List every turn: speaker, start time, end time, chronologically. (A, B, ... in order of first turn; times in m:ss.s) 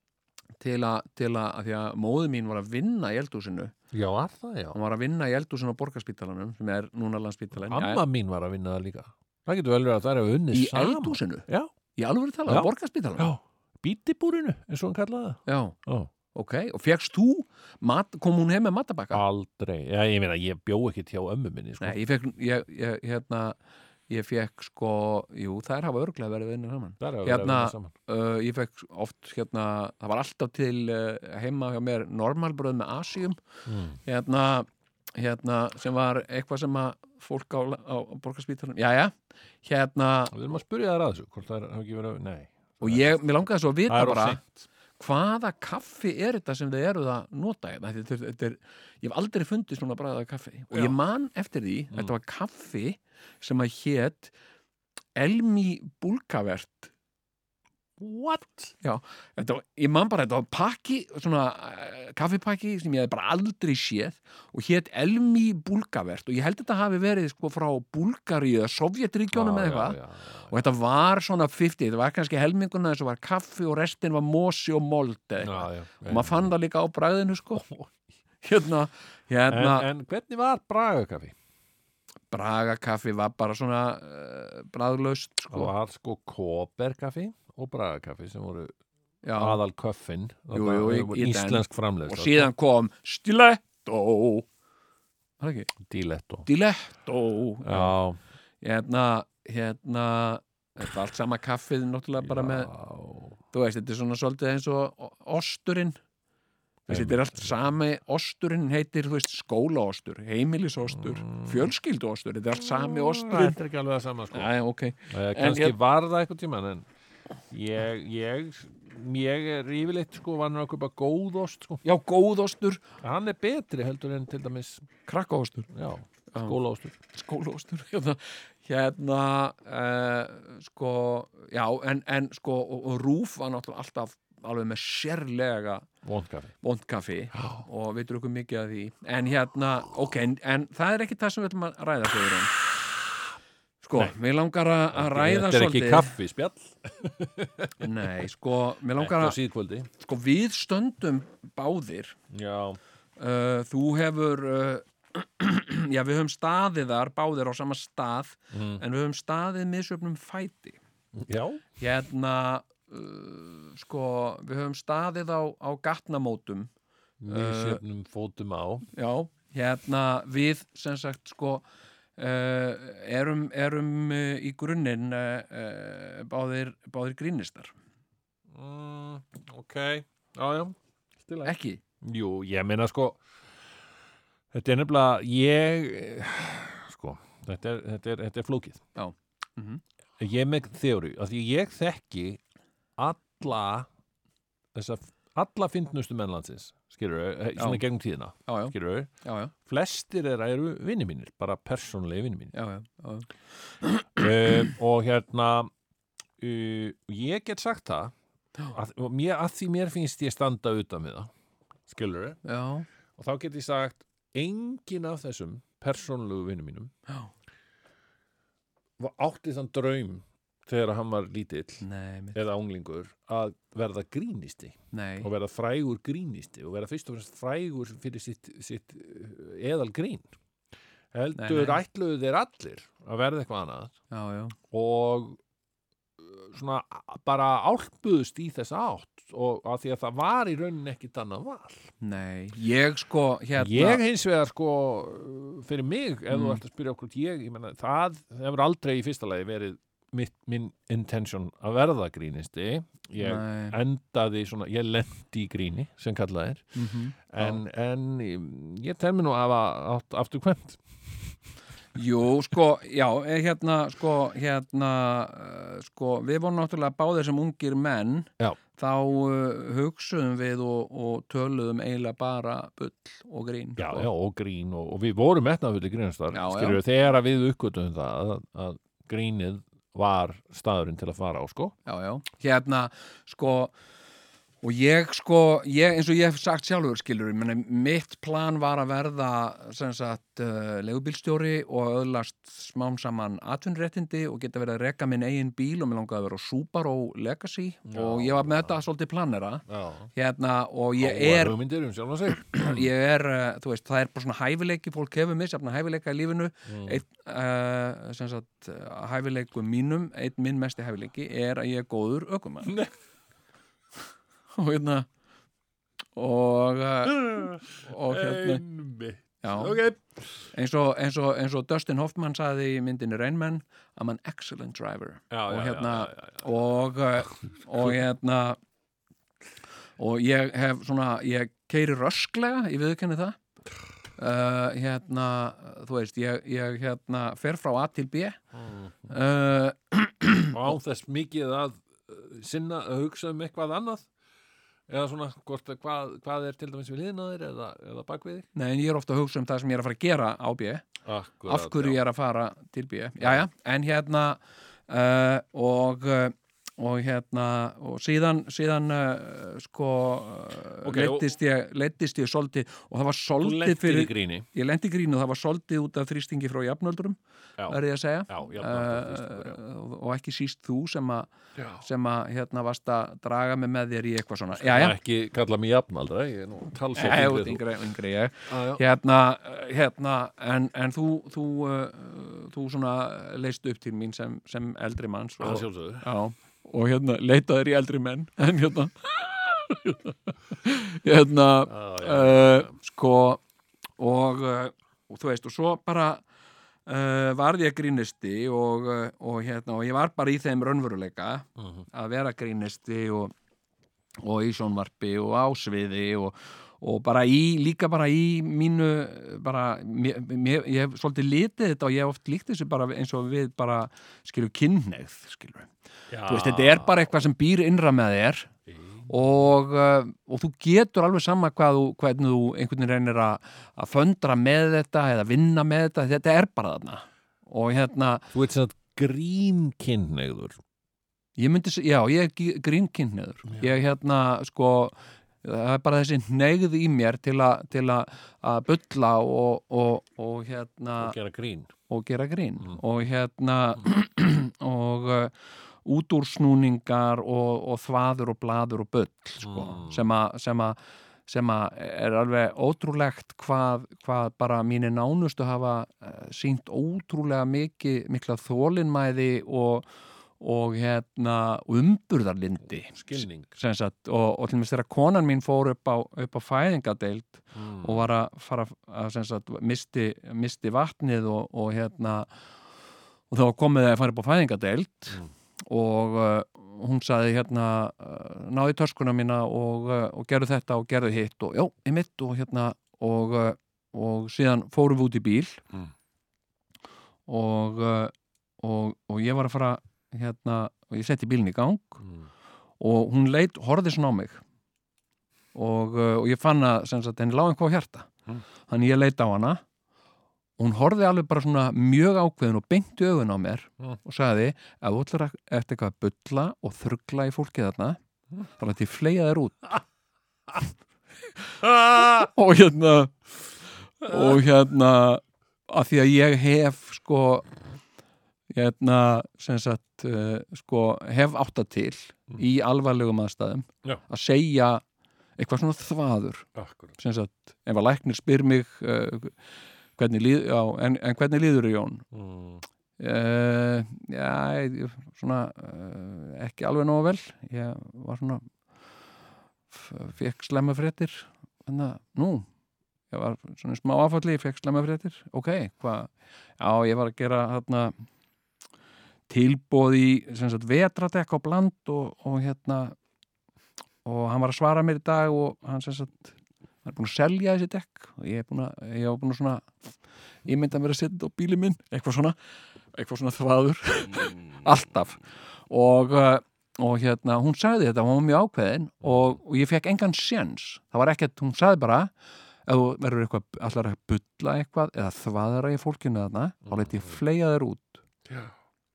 0:00.6-0:03.7 A
0:03.9-0:04.8 B
0:04.7-0:08.0 A
0:07.6-0:11.7 B
0:10.5-0:13.3 A
0:12.5-0:16.1 B
0:15.5-0:15.8 A
0:16.3-0:19.2 A
0:19.1-0:22.0 B
0:21.8-0:23.6 A
0:24.1-0:33.4 A
0:27.0-0:27.9 B
0:33.7-0:34.0 B
0:34.0-0:40.3 A
0:40.3-0:44.6 B
0:42.8-0:44.4 A
0:45.0-0:54.3 A
0:50.7-0:51.0 B
0:55.2-0:56.9 A
0:58.0-0:58.7 B
0:58.8-1:10.0 A
1:09.3-1:10.6 B
1:10.5-1:17.6 A
1:15.4-1:16.5 B
1:17.5-1:18.0 B
1:18.4-1:19.9 A
1:19.5-1:21.4 B
1:22.3-1:25.7 A
1:25.5-1:28.7 B
1:29.2-1:29.6 A
1:29.4-1:32.5 B
1:30.5-1:34.5 A
1:35.4-1:35.7 A
1:35.8-1:36.5 B
1:36.4-1:38.0 A
1:37.6-1:38.2 B
1:38.6-1:42.7 A
1:42.2-1:43.4 B
1:43.5-1:46.0 A
1:46.9-1:47.6 B
1:46.9-1:53.6 A
1:50.9-1:51.7 B
1:52.5-1:54.5 B
1:54.3-1:55.8 A
1:55.1-1:56.9 B
1:57.5-2:01.8 B
2:01.8-2:02.8 A
2:03.0-2:04.9 B
2:05.1-2:05.7 A
2:05.7-2:07.0 B
2:07.1-2:15.9 A
2:16.0-2:16.5 B
2:16.6-2:22.6 A
2:17.3-2:17.6 B
2:23.8-2:26.1 A
2:24.9-2:28.1 B
2:27.8-2:29.4 A
2:29.0-2:29.9 B
2:30.0-2:32.2 A
2:32.3-2:32.8 B
2:33.2-2:40.8 A
2:38.5-2:38.8 B
2:41.2-2:41.6 B
2:41.8-2:46.7 A
2:47.2-2:48.9 B
2:47.3-2:47.8 A
2:48.9-2:51.6 A
2:52.2-2:57.7 A
2:58.5-3:03.2 B
3:01.4-3:01.8 A
3:04.5-3:08.8 B
3:09.0-3:09.8 A
3:10.2-3:12.4 B
3:13.0-3:13.9 B
3:14.7-3:19.1 B
3:17.6-3:17.8 A
3:18.4-3:19.5 A
3:19.6-3:22.6 B
3:22.5-3:23.3 A
3:23.8-3:24.6 A
3:24.2-3:25.7 B
3:26.4-3:28.1 B
3:28.7-3:31.3 B
3:31.9-3:32.4 B
3:32.4-3:32.9 A
3:33.2-3:36.9 B
3:39.0-3:50.3 B
3:41.8-3:42.4 A
3:44.9-3:45.3 A
3:51.1-3:54.0 B
3:51.4-3:51.8 A
3:54.1-3:54.6 A
3:54.7-3:55.4 B
3:56.2-4:01.9 B
4:02.0-4:04.0 A
4:03.6-4:21.4 B
4:06.3-4:06.6 A
4:13.2-4:13.8 A
4:16.8-4:17.6 A
4:22.0-4:34.1 A
4:33.8-4:41.8 B
4:36.3-4:36.8 A
4:41.8-4:43.7 A
4:44.6-4:59.6 A
4:57.9-4:58.8 B
4:59.7-5:00.1 B
5:00.2-5:01.6 A
5:01.0-5:02.8 B
5:02.5-5:12.7 A
5:06.7-5:07.0 B
5:12.6-5:12.9 B
5:14.6-5:15.1 A
5:16.2-5:18.6 A
5:17.0-5:20.4 B
5:19.4-5:19.8 A
5:20.5-5:28.6 A
5:25.3-5:26.5 B
5:30.0-5:33.4 A
5:34.2-5:38.4 A
5:38.5-5:39.1 B
5:39.1-5:40.7 A
5:40.5-5:44.1 B
5:44.9-5:48.5 B
5:48.6-5:50.9 A
5:51.0-5:52.0 B
5:51.5-6:11.3 A
5:53.2-5:53.5 B
6:00.8-6:01.3 B
6:03.4-6:04.5 B
6:07.6-6:09.6 B
6:11.6-6:11.8 B
6:11.8-6:15.0 A
6:14.5-6:17.6 B
6:17.0-6:33.4 A
6:18.5-6:18.8 B
6:25.4-6:26.1 B
6:31.6-6:32.7 B
6:34.0-6:36.2 A
6:36.9-6:43.3 A
6:41.6-6:41.9 B
6:44.2-6:55.7 A
6:56.1-6:57.0 B
6:56.2-6:58.5 A
6:58.7-6:59.1 B
6:59.1-7:08.3 A
7:08.3-7:10.6 B
7:11.4-7:21.2 A
7:21.0-7:21.7 B
7:21.9-7:52.3 A
7:29.4-7:30.0 B
7:42.9-7:43.5 B
7:47.5-7:48.1 B
7:53.3-8:05.6 A
8:07.3-8:12.0 A
8:12.0-8:12.3 B
8:12.8-8:14.4 A
8:15.5-8:18.1 A
8:18.7-8:19.6 A
8:20.6-8:28.0 A
8:28.6-8:29.8 A
8:31.6-8:32.3 B
8:32.0-8:33.3 A
8:34.0-8:37.5 A
8:34.1-8:34.4 B
8:38.5-8:44.8 A
8:45.4-8:46.5 A
8:46.6-8:47.0 B
8:47.0-8:49.4 A
8:50.0-8:52.1 A
8:52.1-8:52.6 B
8:53.0-8:58.5 A
8:59.7-9:02.5 A
9:03.1-9:07.9 A
9:09.3-9:13.0 A
9:14.0-9:16.3 A
9:16.8-9:19.9 A
9:20.4-9:22.4 A
9:22.9-9:32.1 A
9:29.0-9:29.4 B
9:32.7-9:38.0 A
9:36.7-9:37.2 B
9:38.3-9:38.5 B